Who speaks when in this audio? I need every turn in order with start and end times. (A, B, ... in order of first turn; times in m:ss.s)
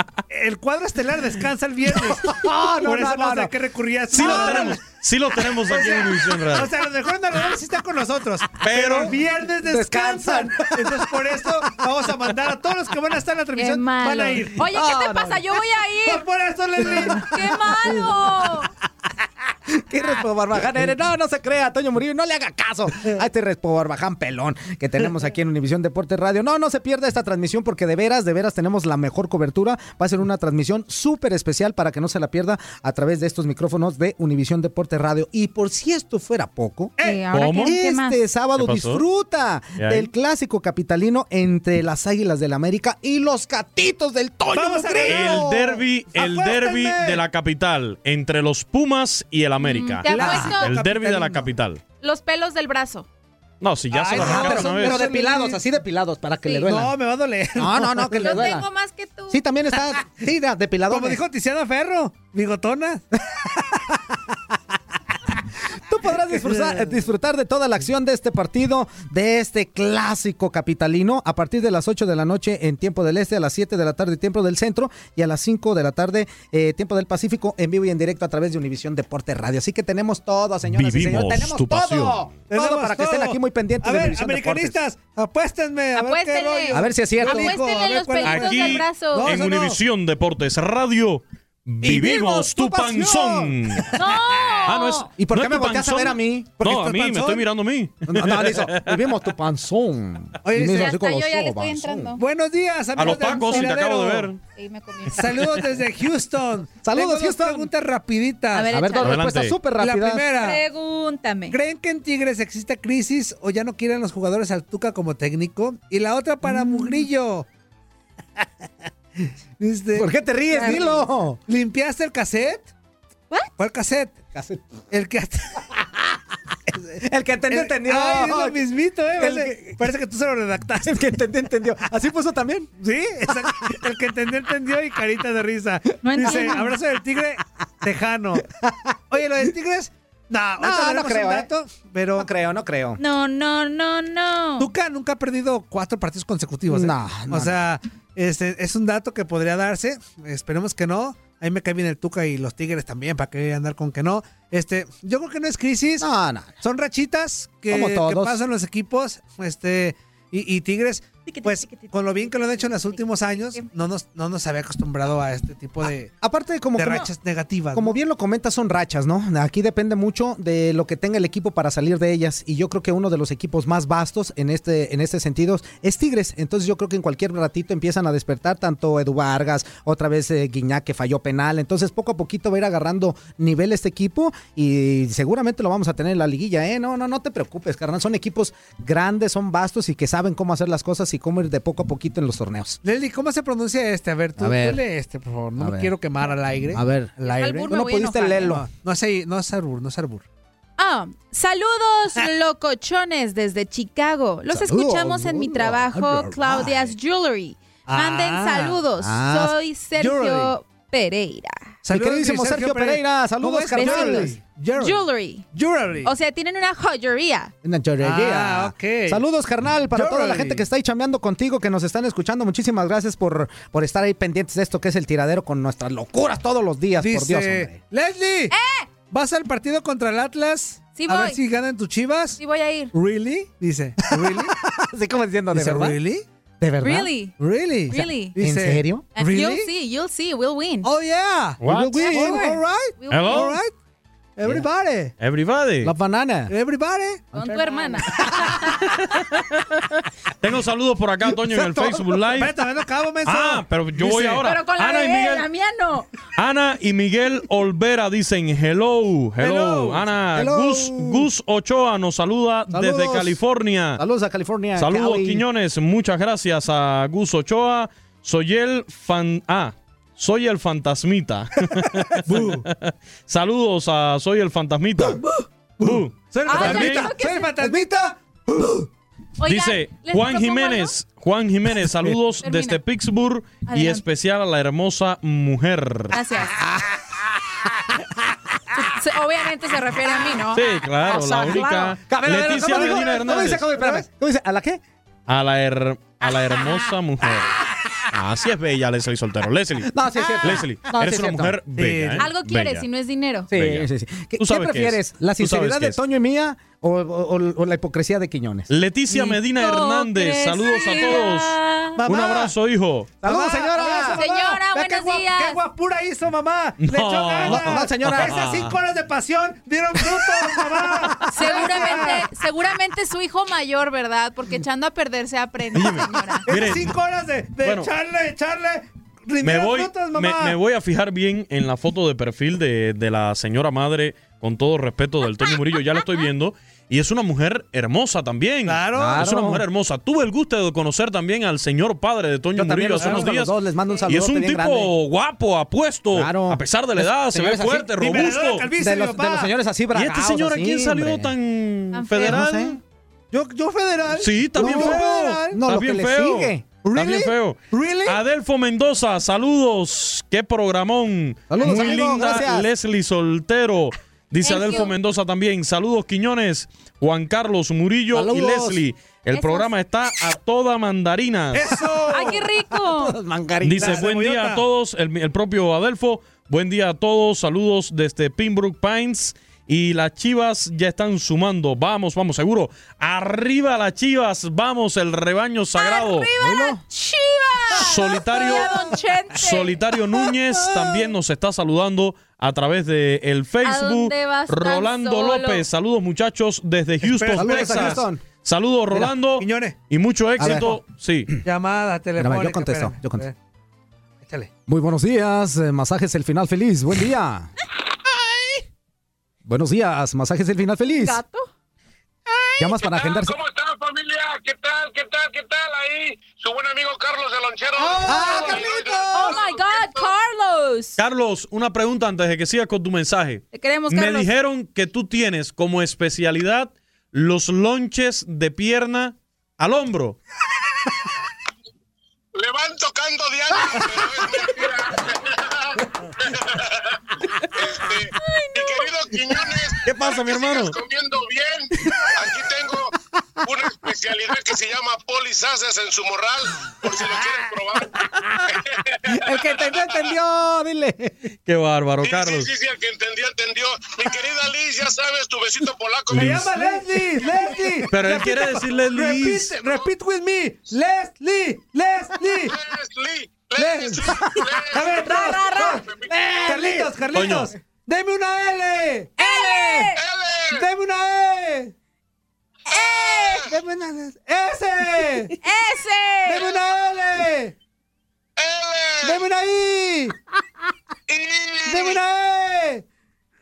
0:00.3-0:04.8 A
0:01.9-0:03.5 B
0:04.1-0:06.7 C
0:04.1-0:04.8 B
0:05.6-0:14.6 A
0:08.6-0:09.1 C
0:08.8-0:09.1 B
0:09.6-0:11.1 B
0:13.6-0:16.2 D
0:14.6-0:15.4 B
0:16.0-0:17.3 A
0:16.8-0:18.2 B
0:16.8-0:18.7 D
0:19.7-0:36.9 B
0:37.0-0:37.2 A
0:37.0-0:38.2 D
0:37.3-0:37.7 C
0:37.6-0:45.8 B
0:38.6-0:39.0 C
0:39.8-0:40.1 C
0:44.5-0:45.5 A
0:45.0-0:51.8 C
0:46.1-0:47.2 A
0:49.6-0:50.7 D
0:50.0-0:51.5 A
0:52.0-0:53.0 D
0:53.6-0:55.0 C
0:53.9-0:55.6 A
0:54.1-0:56.9 B
0:56.7-0:58.5 A
0:57.6-0:58.6 B
0:58.2-0:59.4 D
0:59.3-1:01.2 B
1:00.9-1:03.0 A
1:05.9-1:24.8 B
1:06.3-1:06.9 A
1:20.7-1:22.3 C
1:22.5-1:29.8 A
1:25.9-1:29.3 D
1:26.7-1:27.6 B
1:28.2-1:33.9 C
1:31.8-1:33.8 B
1:33.9-1:35.1 D
1:34.7-1:39.0 C
1:35.1-1:36.9 B
1:36.6-1:37.4 A
1:38.1-1:42.2 B
1:40.4-1:40.9 A
1:40.6-1:42.2 D
1:42.2-1:44.3 A
1:43.0-1:44.4 C
1:44.6-1:45.3 D
1:45.1-1:48.7 A
1:46.8-1:47.7 B
1:48.5-1:49.2 D
1:48.7-1:50.3 B
1:49.0-1:49.6 C
1:49.8-1:50.6 A
1:50.4-1:51.6 D
1:51.5-1:57.4 A
1:56.5-1:57.0 D
1:59.6-2:02.7 A
1:59.9-2:01.4 B
2:00.5-2:00.9 D
2:03.6-2:04.2 A
2:04.3-2:04.6 B
2:04.9-2:05.6 A
2:07.0-2:08.6 B
2:07.5-2:10.9 A
2:09.2-2:09.9 B
2:10.8-2:12.7 B
2:12.8-2:18.4 A
2:16.0-2:16.7 D
2:16.2-2:16.6 B
2:18.6-2:18.9 B
2:19.1-2:22.3 A
2:20.6-2:21.5 B
2:22.2-2:23.0 B
2:23.0-2:24.7 D
2:24.6-2:36.0 A
2:26.7-2:27.6 B
2:36.0-2:36.6 B
2:36.6-2:46.1 A
2:37.7-2:38.4 B
2:41.2-2:43.7 D
2:46.2-2:47.1 B
2:46.8-2:48.0 A
2:47.7-3:12.8 B
3:12.8-3:20.2 A
3:14.4-3:14.8 B
3:15.6-3:15.9 B
3:16.7-3:18.7 B
3:17.2-3:18.5 D
3:20.8-3:31.7 D
3:24.5-3:26.9 B
3:27.9-3:28.8 A
3:29.0-3:29.5 B
3:30.0-3:30.5 A
3:31.8-3:34.4 B
3:31.9-3:36.1 A
3:33.7-3:35.5 D
3:36.0-3:37.5 D
3:37.6-3:47.8 B
3:38.0-3:39.2 A
3:39.9-3:40.6 A
3:47.0-3:48.5 A
3:48.5-3:48.9 D
3:49.1-3:52.4 A
3:51.0-3:51.4 D
3:52.4-3:52.9 D
3:52.9-3:54.5 A
3:54.1-3:56.0 B
3:55.5-3:56.2 A
3:56.6-3:57.1 B
3:56.8-3:57.4 D
3:57.4-3:59.7 A
3:57.9-3:58.4 D
3:58.4-3:59.1 B
3:59.2-4:00.9 D
4:00.8-4:03.7 A
4:01.6-4:02.1 C
4:02.0-4:03.6 D
4:03.1-4:03.6 C
4:04.4-4:05.1 A
4:05.2-4:05.9 C
4:05.8-4:06.5 B
4:06.5-4:07.3 A
4:07.3-4:08.9 D
4:07.4-4:08.5 B
4:10.4-4:12.5 C
4:11.3-4:12.0 B
4:12.4-4:14.4 A
4:13.2-4:15.4 C
4:14.4-4:16.1 D
4:16.4-4:24.0 C
4:19.4-4:20.1 A
4:20.3-4:21.3 B
4:22.7-4:23.4 B
4:24.0-4:25.4 B
4:24.8-4:35.2 C
4:32.3-4:32.6 A
4:35.8-4:37.1 C
4:35.8-4:38.8 A
4:36.4-4:37.5 D
4:37.6-4:37.8 B
4:39.4-4:40.9 D
4:39.4-4:46.1 C
4:42.4-4:42.8 D
4:43.7-4:44.0 D
4:46.1-4:46.6 D
4:46.6-4:47.0 B
4:48.7-4:52.0 D
4:50.5-4:53.7 C
4:52.1-4:54.8 B
4:52.3-4:54.0 A
4:55.3-4:57.6 C
4:58.1-5:02.8 C
4:59.9-5:01.6 B
5:01.8-5:02.3 A
5:02.2-5:03.5 D
5:03.5-5:08.7 B
5:03.5-5:06.0 C
5:08.7-5:13.1 C
5:09.1-5:12.0 D
5:12.0-5:12.5 A
5:13.2-5:14.2 B
5:13.2-5:22.2 A
5:13.8-5:15.6 D
5:16.8-5:18.7 C
5:17.4-5:18.5 B
5:21.3-5:26.4 D
5:25.7-5:26.9 C
5:26.4-5:30.6 A
5:27.6-5:27.9 C
5:29.4-5:43.5 C
5:35.4-5:36.0 D
5:38.6-5:39.2 A
5:38.9-5:39.6 B
5:42.5-5:44.9 B
5:43.0-5:43.2 A
5:44.1-5:48.7 C
5:46.1-5:51.3 B
5:48.0-5:49.5 A
5:49.9-5:52.8 C
5:51.9-5:52.4 D
5:52.2-5:52.8 B
5:53.3-5:55.6 A
5:54.2-6:11.8 C
5:54.6-5:56.7 B
5:56.8-5:58.2 A
6:01.5-6:02.7 B
6:04.4-6:04.9 D
6:08.1-6:08.8 B
6:09.3-6:09.7 D
6:11.5-6:12.5 A
6:12.1-6:13.1 D
6:12.8-6:14.0 B
6:13.6-6:26.3 C
6:13.8-6:14.6 A
6:25.7-6:30.3 D
6:26.4-6:26.8 B
6:27.7-6:28.7 C
6:29.3-6:41.3 C
6:33.6-6:35.6 D
6:37.0-6:38.0 A
6:37.3-6:38.2 B
6:38.9-6:39.7 A
6:40.4-6:40.8 B
6:41.4-6:43.3 A
6:42.2-6:43.2 B
6:44.2-6:44.5 A
6:44.7-6:47.5 B
6:49.4-6:51.2 B
6:50.9-6:51.5 D
6:52.6-6:53.4 B
6:52.8-7:00.1 E
6:57.8-6:59.4 A
6:58.0-6:58.6 B
6:58.2-6:58.6 D
6:59.1-7:01.0 D
7:01.0-7:10.2 C
7:03.5-7:04.3 D
7:12.3-7:29.9 E
7:18.2-7:18.8 D
7:19.8-7:20.8 C
7:29.1-7:31.1 B
7:31.4-7:32.5 C
7:32.0-7:36.3 E
7:36.1-7:36.5 C
7:36.1-7:42.5 A
7:36.4-7:36.8 B
7:37.9-7:39.5 C
7:39.6-7:39.8 E
7:42.4-7:45.0 E
7:43.6-7:44.2 A
7:44.7-7:49.9 A
7:44.8-7:45.8 D
7:45.6-7:46.5 E
7:46.1-7:46.9 B
7:47.1-7:47.5 C
7:49.2-7:50.0 D
7:49.9-7:50.6 E
7:50.5-7:51.7 A
7:52.7-7:53.5 D
7:52.7-7:53.4 E
7:53.5-7:55.3 A
7:55.4-7:56.5 D
7:56.2-7:57.5 A
7:58.4-7:59.2 E
7:59.0-8:00.1 A
8:01.1-8:02.0 E
8:01.6-8:02.8 A